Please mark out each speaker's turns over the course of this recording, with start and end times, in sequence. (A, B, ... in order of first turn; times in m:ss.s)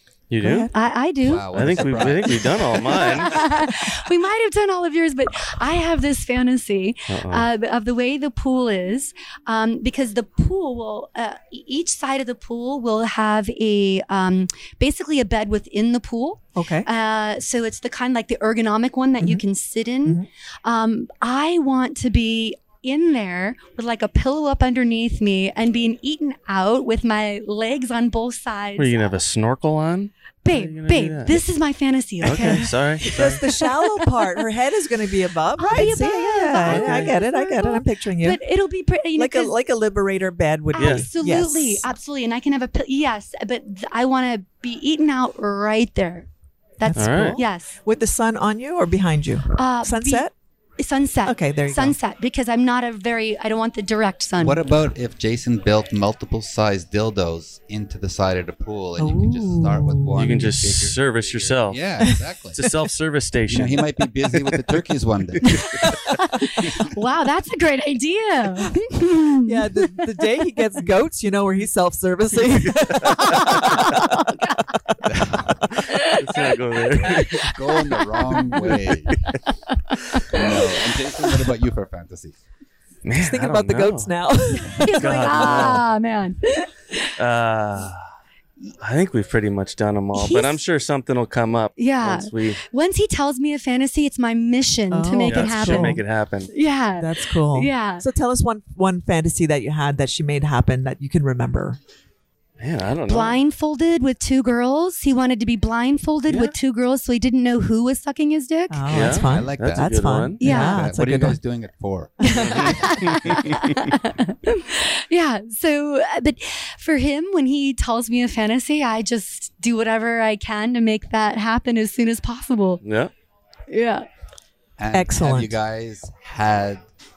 0:00.3-0:00.7 A
0:00.4-0:00.7 B
0:00.7-0:02.2 C
0:01.2-0:03.4 D
0:01.5-0:03.5 A
0:02.7-0:29.2 C
0:07.1-0:07.5 A
0:16.6-0:16.9 B
0:28.8-0:31.4 A
0:30.4-0:34.2 C
0:32.2-0:33.4 A
0:32.2-0:38.4 B
0:35.6-0:39.5 C
0:36.6-0:37.1 A
0:39.2-0:41.9 B
0:40.7-0:47.8 C
0:40.8-0:41.1 A
0:46.8-0:50.3 B
0:47.0-0:47.4 A
0:49.6-0:54.6 C
0:51.2-0:52.0 B
0:54.4-1:02.6 D
0:59.0-1:00.5 B
1:00.1-1:01.8 A
1:02.0-1:02.8 B
1:02.6-1:03.8 A
1:03.5-1:05.6 D
1:05.4-1:10.6 C
1:09.4-1:14.2 B
1:13.0-1:14.8 C
1:15.1-1:15.8 D
1:15.8-1:18.8 C
1:16.1-1:17.5 A
1:16.9-1:19.3 D
1:18.7-1:19.4 A
1:19.7-1:20.6 C
1:20.3-1:22.4 D
1:21.2-1:21.5 B
1:23.0-1:24.1 A
1:23.2-1:25.7 B
1:24.6-1:27.1 C
1:24.9-1:25.8 A
1:27.2-1:28.0 A
1:28.8-1:32.6 A
1:30.1-1:30.6 C
1:31.8-1:38.1 C
1:34.9-1:36.0 B
1:35.3-1:36.5 A
1:37.0-1:41.8 B
1:42.6-1:43.4 A
1:43.1-1:49.1 C
1:46.3-1:46.5 A
1:48.7-1:51.4 B
1:48.9-1:50.6 A
1:49.0-1:53.1 D
1:50.4-1:50.8 C
1:52.2-2:02.8 C
1:52.4-1:53.8 A
2:02.8-2:03.1 A
2:03.7-2:04.1 C
2:04.8-2:06.8 D
2:04.9-2:05.6 B